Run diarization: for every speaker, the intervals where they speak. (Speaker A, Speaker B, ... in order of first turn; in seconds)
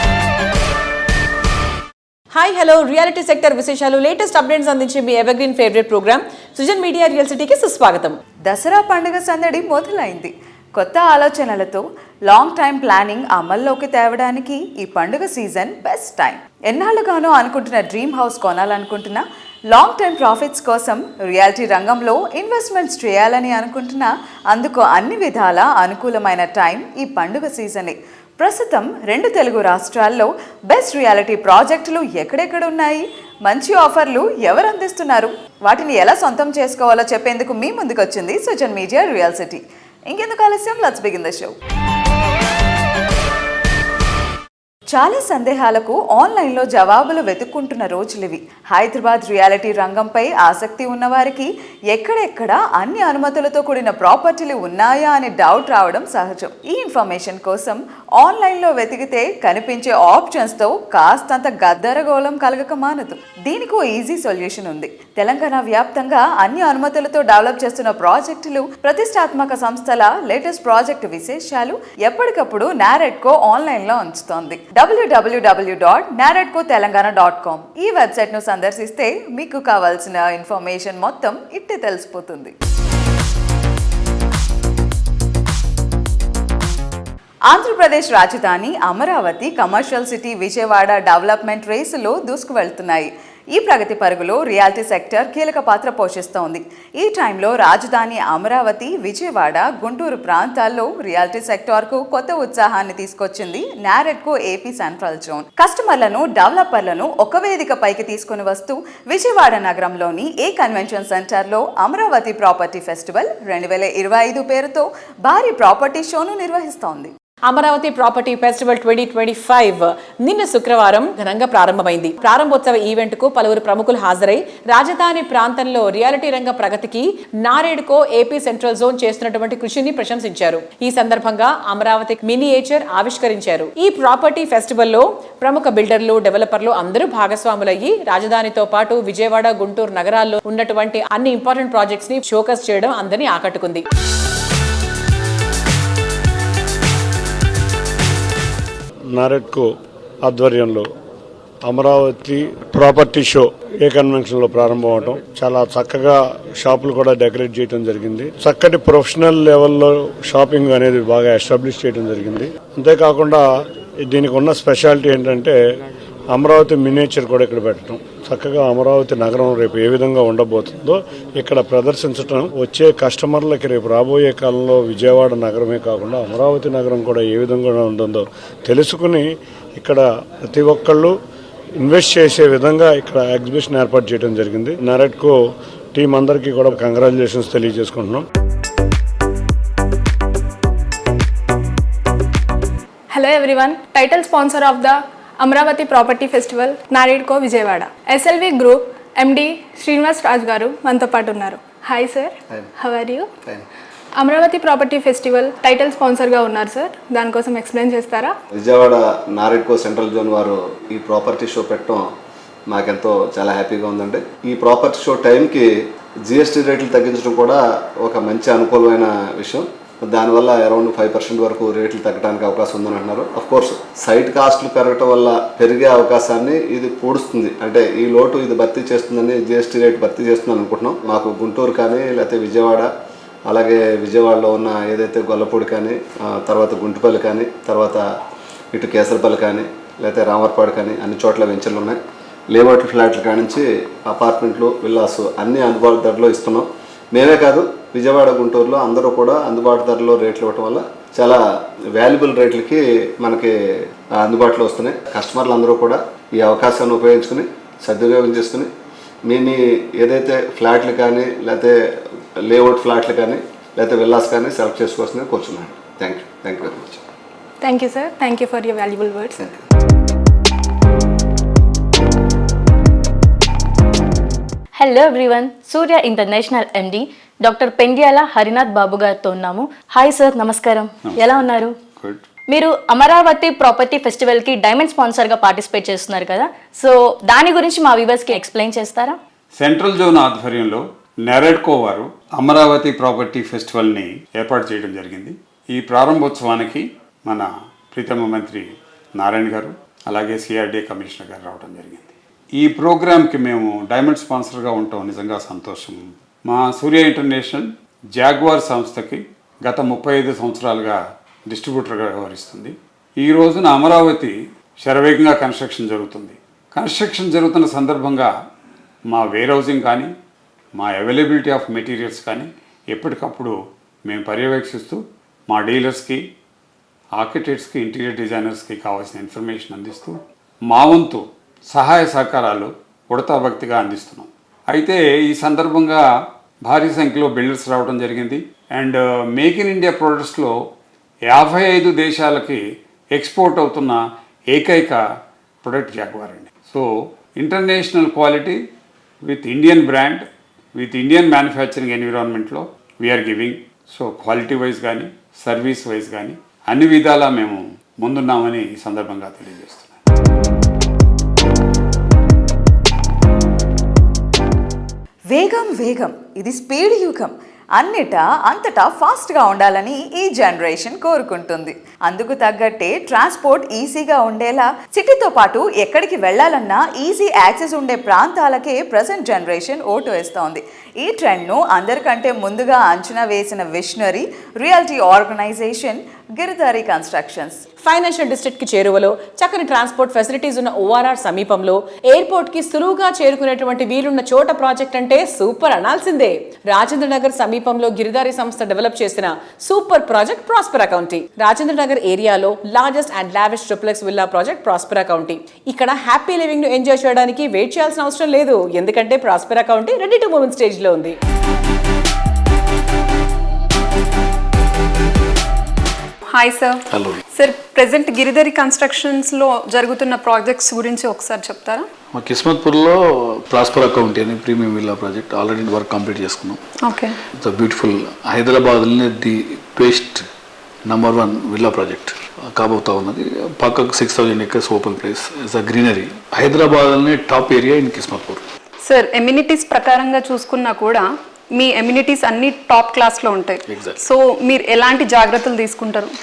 Speaker A: 2.3-8.2, 117.5-143.8, 387.8-411.2
Speaker B: 8.4-41.5, 44.9-82.5, 87.5-117.1, 365.3-387.6
Speaker C: 149.1-149.7, 150.2-150.9, 151.7-163.5, 164.0-165.6, 166.3-181.2, 181.8-185.4, 185.9-188.2
Speaker D: 193.1-203.3, 204.2-208.3, 267.6-269.4
Speaker E: 208.6-212.0, 212.7-215.7, 216.3-232.9, 233.5-238.0, 238.7-242.0, 242.5-251.4, 252.0-253.5, 254.1-258.7, 259.3-261.8, 262.4-267.0
Speaker F: 274.8-281.7, 282.5-289.2
Speaker G: 282.0-282.2, 289.6-318.3, 319.1-320.1, 320.8-323.5, 324.1-326.2, 327.2-330.2, 330.7-336.0, 336.7-340.5, 341.3-342.6, 343.1-344.0, 344.5-345.0, 345.6-346.8, 347.4-348.6, 349.2-350.2, 350.8-360.0
Speaker H: 416.3-416.8, 417.3-421.9, 426.8-427.1, 438.8-446.1
Speaker I: 416.9-417.2, 422.1-426.6, 427.4-430.2, 430.9-438.4, 443.7-444.0